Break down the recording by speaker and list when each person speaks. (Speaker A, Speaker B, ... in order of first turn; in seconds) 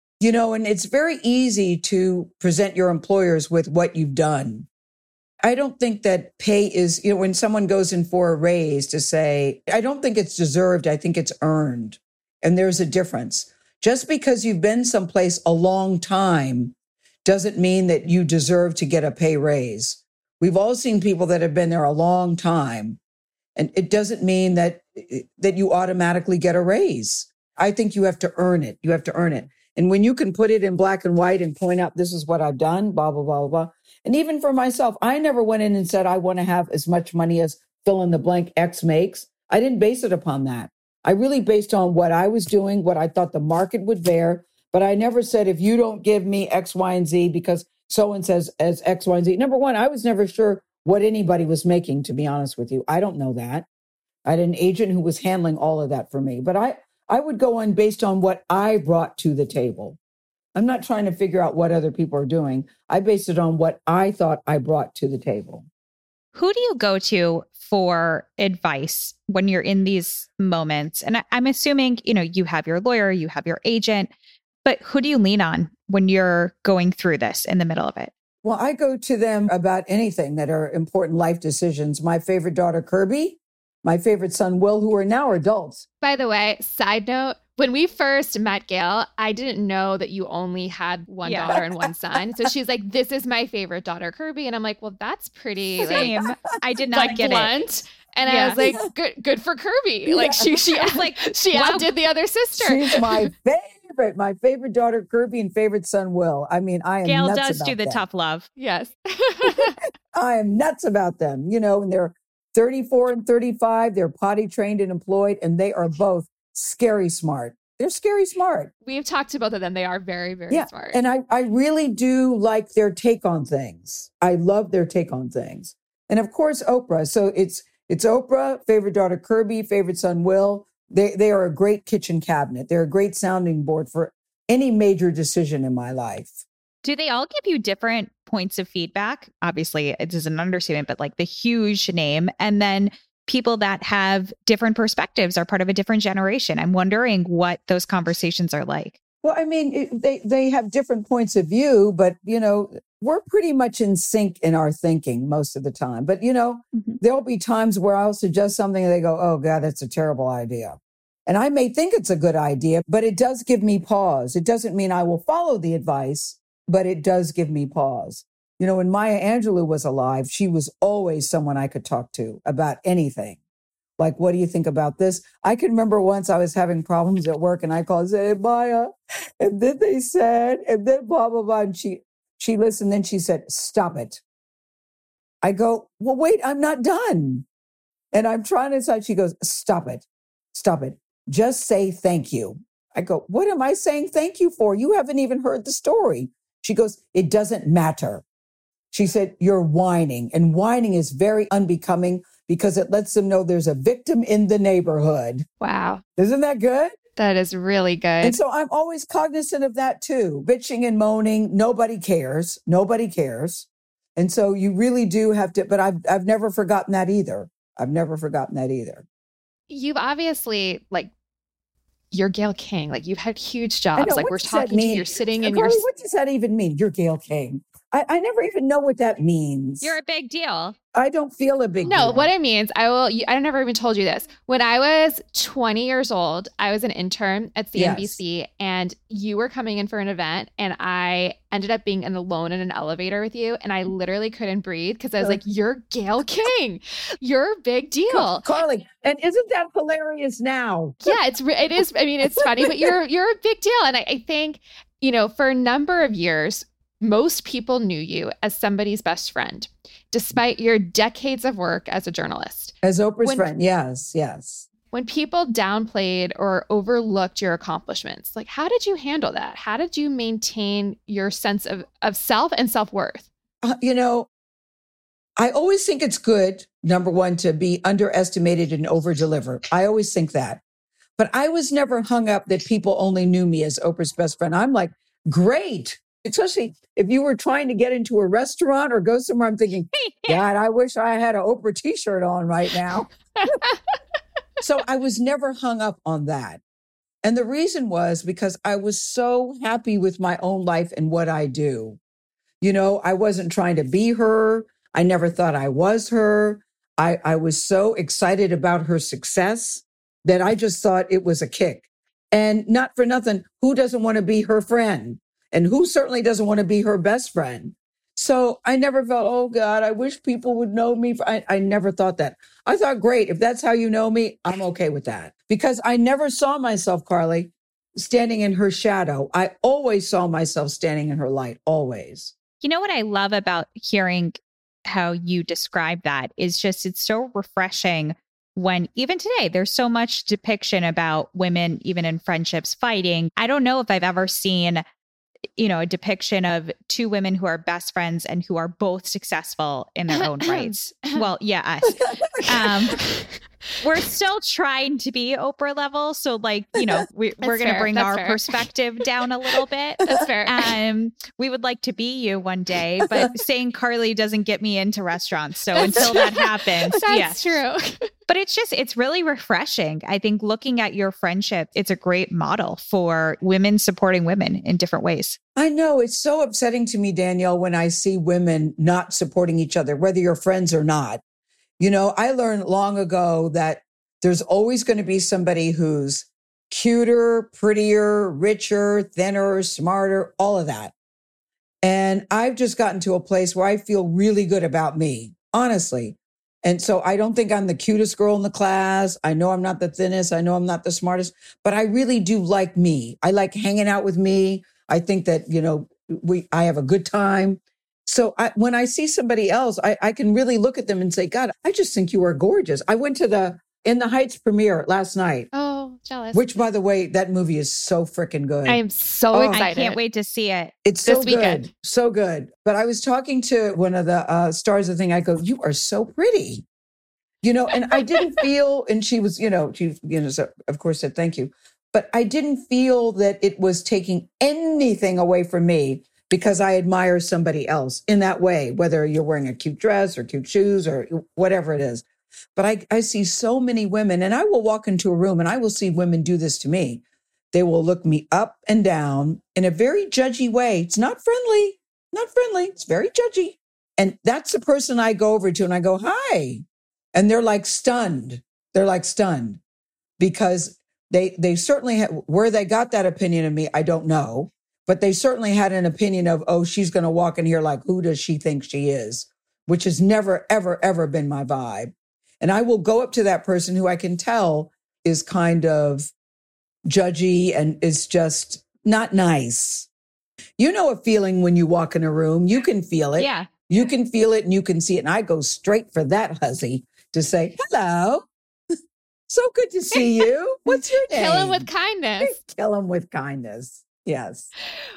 Speaker A: 0.2-4.7, 5.4-23.0, 23.6-53.7, 54.3-60.0, 60.5-65.7, 78.4-85.8, 95.8-96.5, 100.1-100.5, 102.5-108.0, 110.1-118.7, 120.5-136.4, 149.2-173.4, 174.0-184.2, 185.4-187.5, 188.1-198.2, 198.9-205.5, 206.2-206.9, 208.2-219.1, 224.0-230.0, 230.9-232.3, 237.8-238.2, 248.1-251.2, 262.8-264.7, 273.6-274.3, 275.4-280.6, 281.2-293.1, 294.6-296.6, 297.2-302.0, 302.6-332.3, 352.1-352.5, 375.6-381.2, 381.8-390.9, 391.8-415.5, 416.3-418.8, 419.3-419.6, 420.9-426.7, 427.4-442.0, 442.6-459.6, 460.2-476.1, 476.9-479.9, 480.6-488.3, 489.3-491.7, 492.2-494.5
Speaker B: 66.3-74.1, 74.6-78.1, 91.2-91.5, 95.9-97.6, 98.3-98.6, 100.8-101.9, 107.0-108.5, 136.8-149.0, 229.8-230.8, 332.6-344.8, 345.6-353.0, 353.8-367.6, 368.3-375.4, 419.5-420.7, 483.2-483.5
Speaker C: 86.0-96.1, 96.9-103.3, 108.6-109.8, 118.8-121.0, 205.6-206.0, 207.2-208.4, 219.7-221.1, 222.1-225.8, 231.8-248.5, 251.0-263.5, 264.9-273.3, 293.4-293.9, 350.2-351.2, 357.4-358.6, 360.0-360.6, 365.8-368.1, 415.5-416.5, 418.7-420.0, 421.0-421.7, 489.9-492.4